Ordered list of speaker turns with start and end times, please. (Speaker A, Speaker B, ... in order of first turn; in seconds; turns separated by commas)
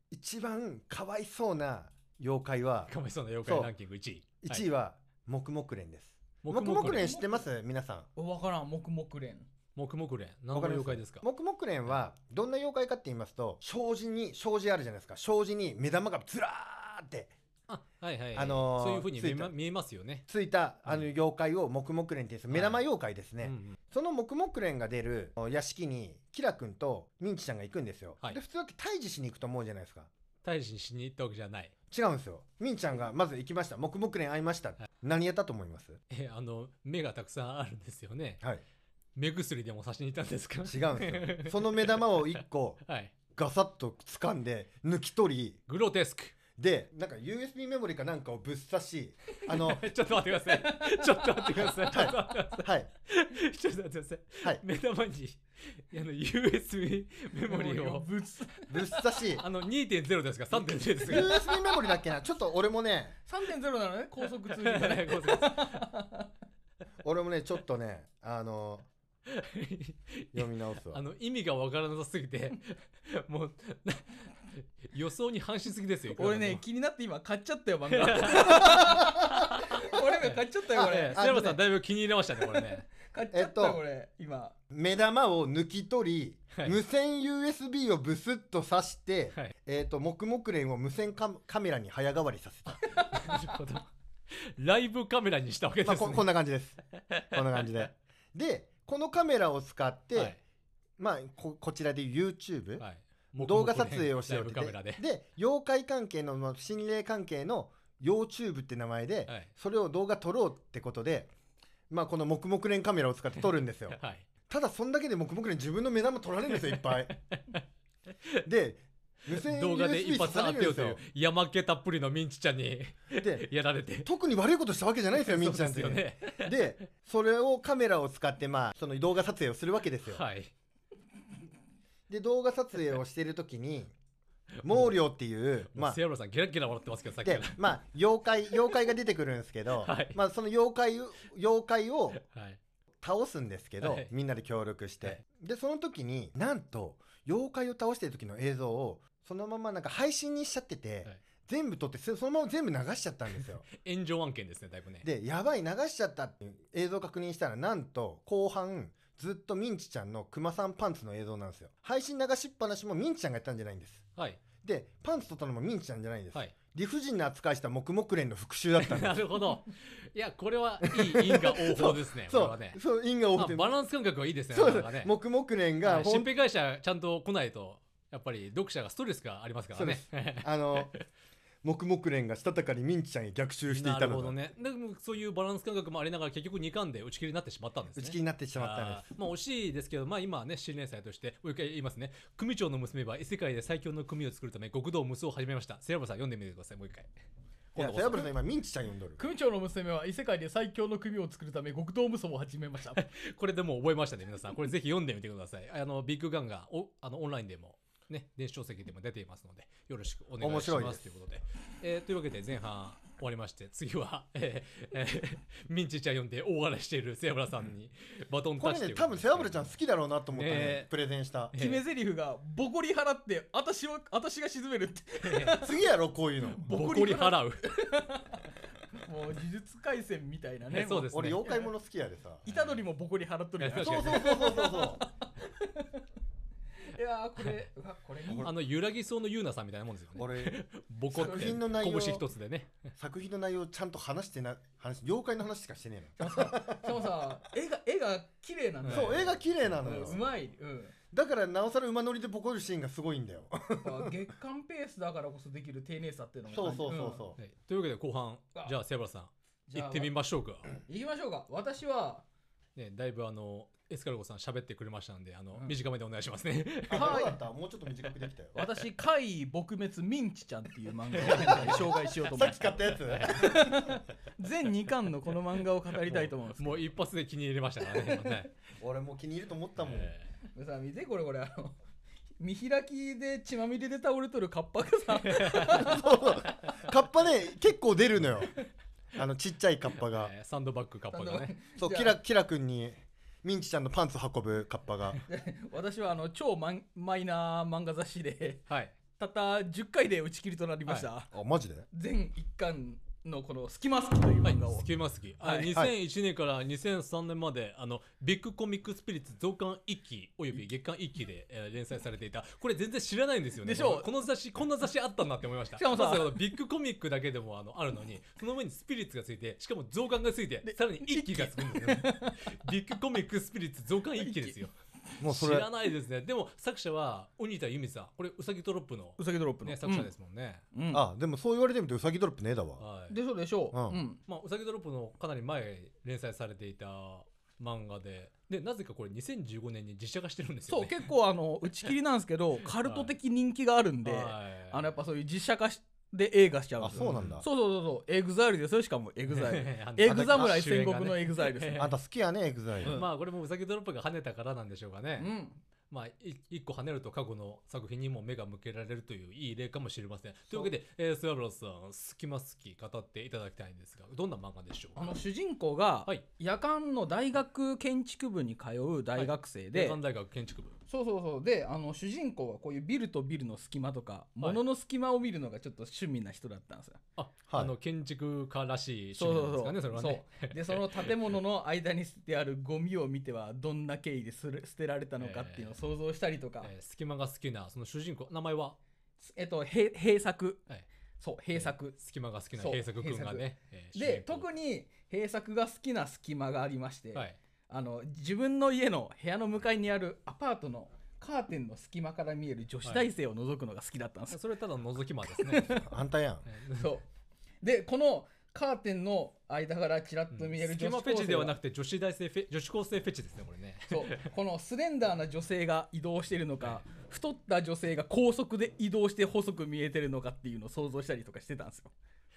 Speaker A: 0.1-2.9, Speaker B: 2.9-4.6, Speaker A: 3.4-3.7, Speaker A: 4.4-8.1, Speaker B: 6.4-7.1, Speaker C: 6.8-7.4, Speaker C: 8.2-9.5, Speaker B: 9.7-11.2, Speaker A: 10.5-17.3, Speaker B: 17.7-20.2, Speaker A: 18.3-19.5, Speaker A: 20.3-30.1, Speaker B: 22.5-22.8, Speaker B: 23.4-23.8, Speaker B: 30.4-31.7, Speaker A: 31.9-36.0, Speaker B: 36.1-38.4, Speaker B: 39.1-43.1, Speaker A: 40.6-45.6, Speaker B: 45.7-46.4, Speaker A: 46.6-49.9, Speaker B: 49.5-58.0, Speaker C: 50.5-51.7, Speaker A: 51.5-52.9, Speaker C: 57.5-59.0, Speaker A: 58.7-59.4, Speaker B: 59.3-61.4, Speaker A: 60.6-63.1, Speaker C: 61.1-61.7, Speaker C: 63.2-66.3, Speaker B: 64.5-65.9, Speaker A: 67.0-68.9, Speaker B: 69.3-76.6, Speaker A: 70.3-71.0, Speaker C: 76.1-81.2, Speaker B: 77.9-79.6, Speaker A: 78.5-79.2, Speaker B: 80.2-82.9, Speaker A: 80.7-81.6, Speaker C: 83.0-84.5, Speaker A: 83.3-83.8, Speaker A: 84.7-92.8, Speaker B: 92.7-96.3, Speaker A: 95.8-96.8, Speaker B: 97.1-97.7, Speaker A: 97.3-100.3, Speaker A: 101.0-102.8, Speaker B: 102.8-105.0, Speaker A: 103.4-111.3, Speaker A: 111.9-114.0, Speaker B: 113.9-114.2, Speaker A: 114.5-117.1, Speaker B: 117.3-117.6, Speaker A: 118.4-121.0, Speaker B: 119.3-124.1, Speaker A: 123.2-123.5, Speaker A: 124.0-130.2, Speaker B: 125.2-126.7, Speaker B: 130.1-130.5, Speaker A: 132.1-133.9, Speaker B: 134.6-134.9, Speaker A: 134.6-136.0, Speaker B: 135.7-137.6, Speaker A: 137.2-142.2, Speaker B: 139.8-140.2, Speaker B: 142.2-142.6, Speaker A: 143.0-153.6, Speaker B: 143.8-144.1, Speaker B: 153.7-155.1, Speaker A: 155.0-164.0, Speaker A: 164.6-169.2, Speaker B: 168.8-172.8, Speaker A: 170.8-173.7, Speaker B: 173.3-175.1, Speaker A: 174.5-176.3, Speaker B: 175.8-181.0, Speaker A: 179.7-180.9, Speaker A: 181.6-184.3, Speaker B: 183.7-197.1, Speaker A: 187.9-189.0, Speaker B: 197.7-198.3, Speaker A: 197.8-199.2, Speaker C: 199.2-203.0, Speaker B: 202.9-219.7, Speaker A: 210.4-211.0, Speaker A: 218.6-221.5, Speaker B: 220.3-220.9, Speaker B: 221.5-221.8, Speaker C: 221.6-225.7, Speaker B: 225.2-225.6, Speaker A: 225.6-226.7, Speaker B: 226.6-227.7, Speaker C: 226.6-231.6, Speaker B: 230.7-231.4, Speaker A: 231.1-232.4, Speaker C: 232.4-236.0, Speaker B: 232.5-232.8, Speaker B: 233.6-234.6, Speaker A: 233.8-235.0, Speaker C: 236.9-238.5, Speaker B: 238.4-242.9, Speaker A: 240.2-240.6, Speaker A: 241.1-242.2, Speaker C: 241.2-241.6, Speaker A: 243.0-247.0, Speaker C: 246.2-250.9, Speaker B: 248.8-249.4, Speaker A: 248.9-250.2, Speaker A: 251.1-254.1, Speaker C: 253.8-257.2, Speaker A: 256.5-257.4, Speaker B: 257.4-260.7, Speaker C: 259.7-260.1, Speaker C: 260.9-262.2, Speaker B: 262.8-267.2, Speaker A: 266.9-268.6, Speaker C: 266.9-267.4, Speaker C: 268.5-276.9, Speaker B: 271.2-271.8, Speaker A: 271.2-273.8, Speaker B: 273.0-273.8, Speaker B: 276.0-278.5, Speaker C: 278.0-278.3, Speaker A: 278.8-280.1, Speaker B: 279.8-280.3, Speaker C: 280.5-281.8, Speaker C: 282.4-286.3, Speaker B: 285.2-285.9, Speaker A: 285.7-288.5, Speaker A: 289.1-290.3, Speaker B: 290.0-291.5, Speaker C: 291.1-292.1, Speaker A: 291.8-295.2, Speaker C: 295.3-298.6, Speaker B: 298.7-298.9, Speaker C: 299.1-301.3, Speaker A: 301.3-301.9, Speaker C: 301.9-304.9, Speaker B: 304.4-330.6, Speaker C: 305.4-305.7, Speaker C: 313.6-314.1, Speaker C: 315.8-316.4, Speaker C: 320.6-322.6, Speaker C: 324.2-324.6, Speaker A: 325.2-325.6, Speaker C: 329.2-330.1, Speaker C: 330.7-331.0, Speaker A: 330.9-332.8, Speaker B: 332.8-333.2, Speaker C: 333.1-334.2, Speaker A: 333.7-334.0, Speaker B: 334.2-341.1, Speaker C: 340.7-351.8, Speaker B: 342.8-343.1, Speaker B: 344.0-344.9, Speaker A: 346.8-347.4, Speaker B: 346.9-347.4, Speaker B: 349.3-351.9, Speaker A: 350.1-350.6, Speaker A: 351.8-353.0, Speaker B: 352.8-355.3, Speaker C: 355.2-355.6, Speaker B: 355.9-365.2, Speaker C: 364.9-370.0, Speaker B: 369.1-370.8, Speaker C: 370.9-377.0, Speaker B: 377.2-381.1, Speaker C: 379.2-386.7, Speaker B: 385.2-385.7, Speaker B: 386.6-388.8, Speaker C: 389.2-390.6, Speaker C: 391.2-391.9, Speaker B: 391.5-394.4, Speaker C: 392.5-404.4, Speaker B: 404.3-405.8, Speaker C: 405.4-405.9, Speaker A: 405.8-406.4, Speaker B: 406.5-406.9, Speaker C: 406.7-407.1, Speaker C: 407.6-411.5, Speaker B: 410.3-414.3, Speaker C: 413.9-421.9